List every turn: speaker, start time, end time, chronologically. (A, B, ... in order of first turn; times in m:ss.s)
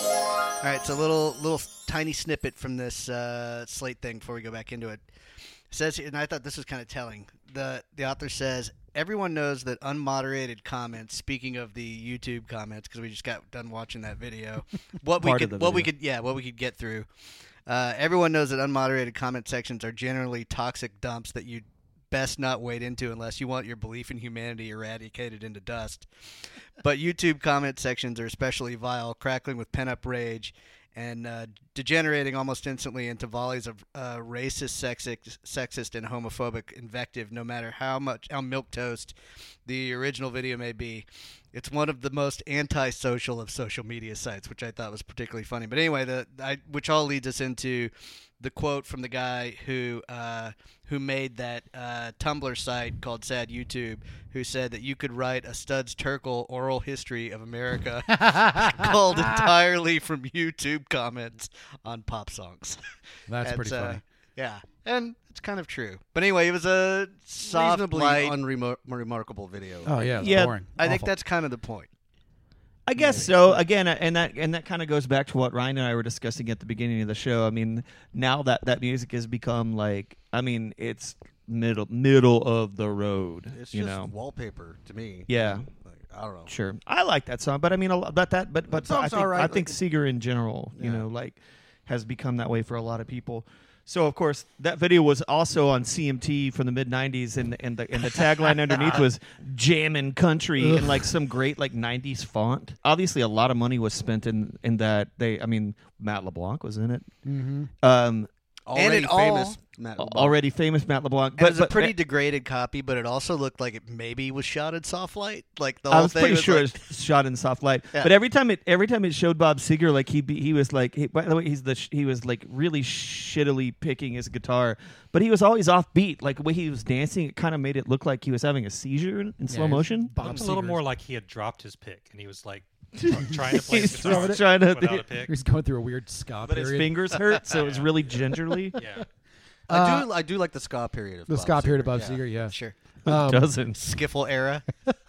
0:00.6-0:05.0 A
0:05.7-0:17.1 A
0:15.2-0:15.9 B
0:17.7-0:26.1 A
0:26.8-0:39.1 A
0:39.6-1:02.8 A
0:58.1-0:59.5 C
1:03.3-1:04.0 C
1:03.4-1:08.4 A
1:07.4-1:09.9 D
1:09.8-1:11.1 C
1:10.2-1:10.6 B
1:10.8-1:11.9 A
1:12.9-1:24.1 B
1:13.0-1:13.6 D
1:23.5-1:26.5 D
1:25.3-1:25.6 B
1:26.5-1:47.1 B
1:28.7-1:29.8 D
1:30.8-1:31.0 D
1:38.8-1:39.0 A
1:40.6-1:41.0 C
1:47.2-1:47.7 C
1:47.8-1:48.3 B
1:48.7-1:50.4 D
1:48.8-1:49.6 A
1:50.0-1:52.0 B
1:51.4-1:56.7 A
1:55.9-2:10.1 B
2:09.5-2:10.8 C
2:10.2-2:15.3 E
2:13.0-2:15.1 B
2:13.3-2:14.5 C
2:15.2-2:17.1 C
2:16.4-2:18.8 B
2:17.4-2:17.9 E
2:18.8-2:19.1 E
2:19.7-2:20.1 C
2:19.7-2:22.2 D
2:21.3-2:23.5 C
2:22.5-2:22.8 A
2:23.1-2:23.8 B
2:23.7-2:24.6 A